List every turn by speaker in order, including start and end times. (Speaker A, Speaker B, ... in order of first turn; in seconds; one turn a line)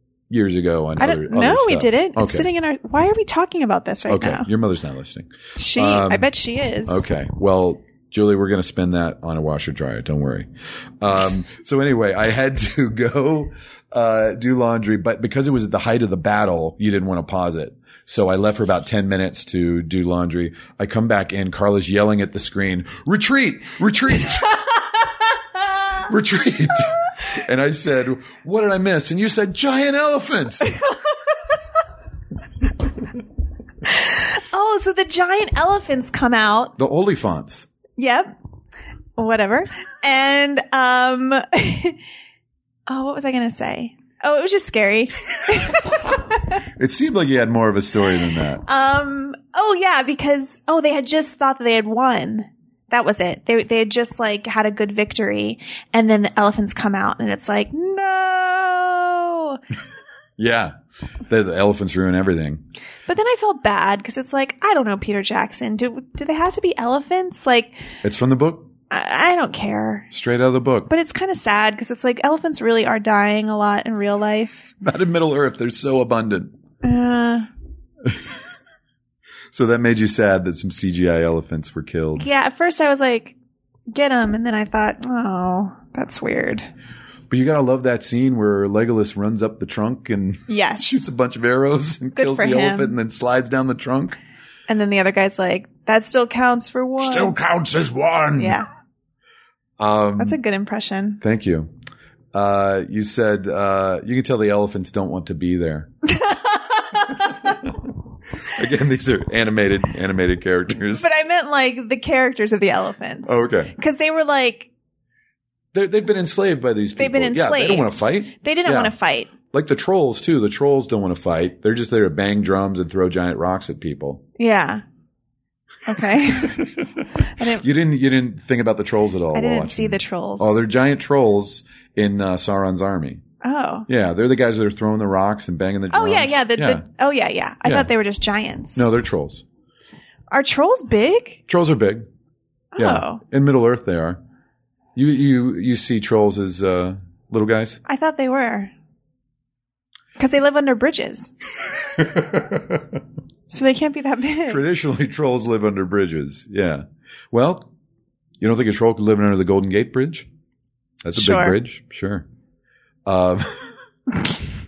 Speaker A: 0.3-2.5
Speaker B: 1.0-4.5
Speaker A: 4.1-6.3
Speaker B: 5.6-7.0
Speaker A: 6.9-10.5
Speaker A: 11.0-24.6
Speaker A: 26.0-30.8
Speaker B: 33.9-36.8
Speaker A: 36.8-37.7
Speaker B: 38.0-38.3
Speaker B: 39.2-42.0
Speaker B: 42.9-46.5
Speaker A: 46.8-48.6
Speaker B: 48.6-59.6
Speaker A: 60.4-60.7
Speaker A: 61.3-62.6
Speaker B: 63.1-67.8
Speaker A: 68.0-68.7
Speaker B: 68.9-70.1
Speaker A: 70.1-70.9
Speaker B: 70.9-74.6
Speaker A: 74.8-76.5
Speaker B: 76.8-77.5
Speaker A: 78.0-78.3
Speaker A: 79.5-82.3
Speaker B: 82.2-83.4
Speaker B: 83.9-86.7
Speaker A: 87.3-94.2
Speaker B: 90.5-91.0
Speaker B: 92.2-93.0
Speaker B: 94.7-97.4
Speaker A: 97.0-98.6
Speaker B: 98.4-98.7
Speaker A: 99.8-100.4
Speaker B: 100.2-101.2
Speaker A: 101.2-101.7
Speaker A: 102.3-105.9
Speaker B: 106.1-107.6
Speaker A: 107.2-107.9
Speaker A: 108.4-111.1
Speaker B: 111.0-114.7
Speaker A: 113.3-113.7
Speaker A: 115.7-118.9
Speaker B: 117.0-119.3
Speaker A: 119.5-124.2
Speaker B: 124.4-124.8
Speaker B: 125.9-127.6
Speaker A: 126.2-126.8
Speaker A: 127.6-133.2
Speaker B: 129.3-130.6
Speaker B: 133.4-133.9
Speaker A: 133.9-136.8
Speaker B: 135.9-138.8
Speaker A: 137.7-137.9
Speaker A: 138.8-139.4
Speaker B: 140.3-141.4
Speaker A: 141.5-142.1
Speaker B: 142.7-143.2
Speaker A: 142.8-144.2
Speaker A: 144.9-147.8
Speaker B: 147.9-148.7
Speaker B: 150.2-151.3
Speaker A: 152.0-153.0
Speaker B: 153.5-154.6
Speaker A: 154.5-157.7
Speaker A: 158.4-160.3
Speaker A: 161.0-162.3
Speaker B: 161.2-161.6
Speaker A: 163.1-163.7